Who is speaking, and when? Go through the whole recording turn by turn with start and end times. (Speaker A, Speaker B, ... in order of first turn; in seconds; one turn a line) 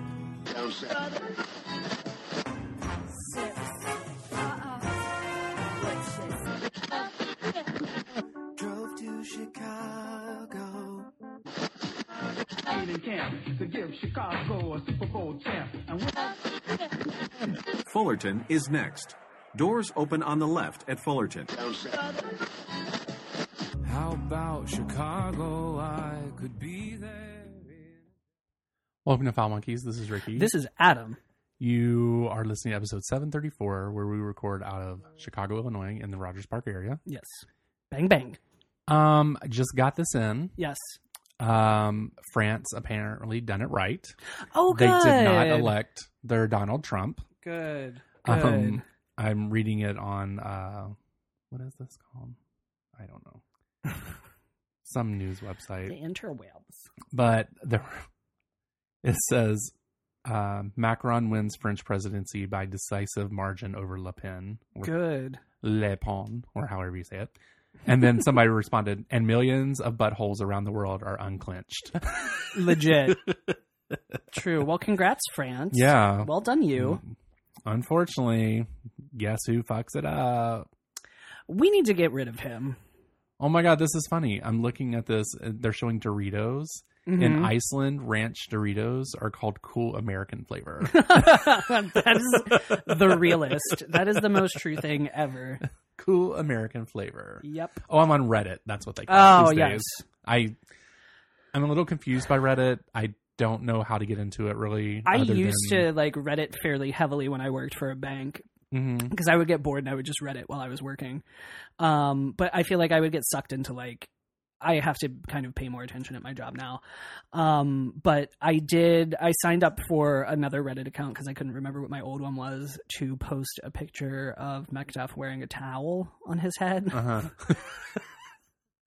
Speaker A: 3.3-3.6
Speaker A: 5.8-6.4
Speaker A: 8.6-11.1
Speaker B: 12.7-16.3
Speaker C: 17.9-21.7
Speaker A: 23.9-27.9
Speaker D: 29.1-30.5
Speaker E: 30.4-31.2
Speaker D: 31.6-37.0
Speaker E: 37.1-38.4
Speaker D: 38.9-40.6
Speaker E: 40.6-41.0
Speaker D: 41.4-44.2
Speaker E: 44.5-45.7
Speaker D: 44.7-47.2
Speaker E: 47.4-48.8
Speaker D: 48.2-51.0
Speaker D: 51.5-52.4
Speaker D: 53.0-53.4
Speaker D: 54.8-56.0
Speaker E: 55.9-56.9
Speaker D: 57.1-58.1
Speaker D: 59.0-59.7
Speaker D: 60.2-64.9
Speaker E: 64.8-65.4
Speaker D: 65.6-67.3
Speaker D: 67.8-73.3
Speaker E: 72.5-73.3
Speaker E: 74.3-77.0
Speaker D: 75.7-77.1
Speaker D: 77.7-80.7
Speaker E: 81.5-82.8
Speaker D: 83.4-94.4
Speaker E: 87.1-87.5
Speaker E: 90.8-95.6
Speaker D: 96.0-100.6
Speaker E: 97.4-97.8
Speaker E: 99.1-100.0
Speaker D: 101.5-105.9
Speaker E: 105.1-108.5
Speaker D: 108.7-109.1
Speaker E: 109.1-111.2
Speaker E: 111.8-114.1
Speaker E: 114.6-116.8
Speaker E: 117.3-127.3
Speaker D: 126.9-127.7